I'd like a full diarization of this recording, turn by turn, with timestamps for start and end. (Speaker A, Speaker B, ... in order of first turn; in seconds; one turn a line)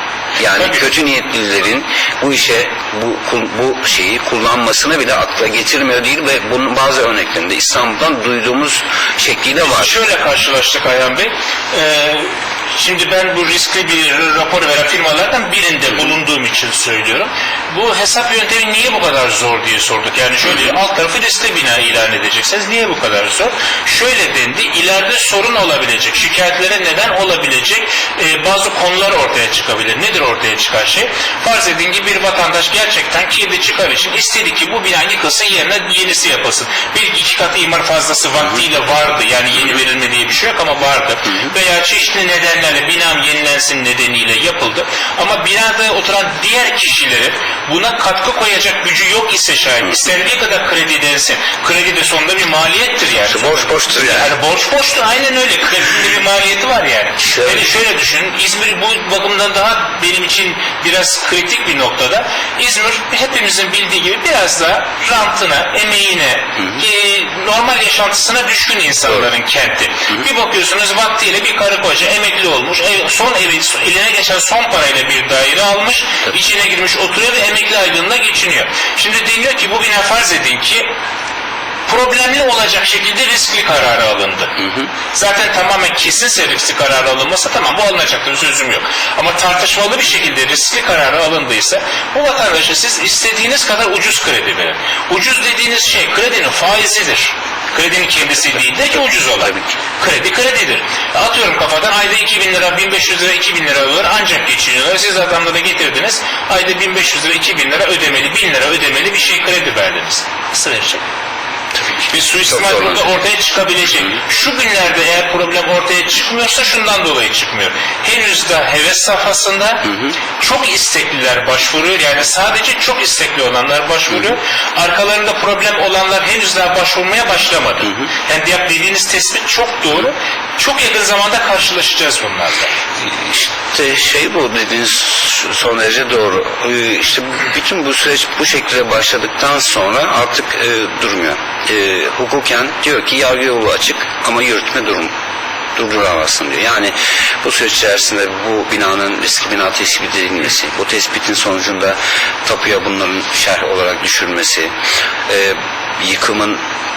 Speaker A: 0.4-9.9
Speaker B: 0.6-0.8
Speaker B: 9.6-80.9
Speaker A: 53.3-54.3
Speaker B: 81.9-84.6
Speaker A: 84.6-84.9
Speaker B: 85.1-111.0
Speaker B: 112.1-132.7
Speaker A: 112.5-113.0
Speaker A: 133.0-145.1
Speaker A: 145.8-154.7
Speaker A: 155.3-156.6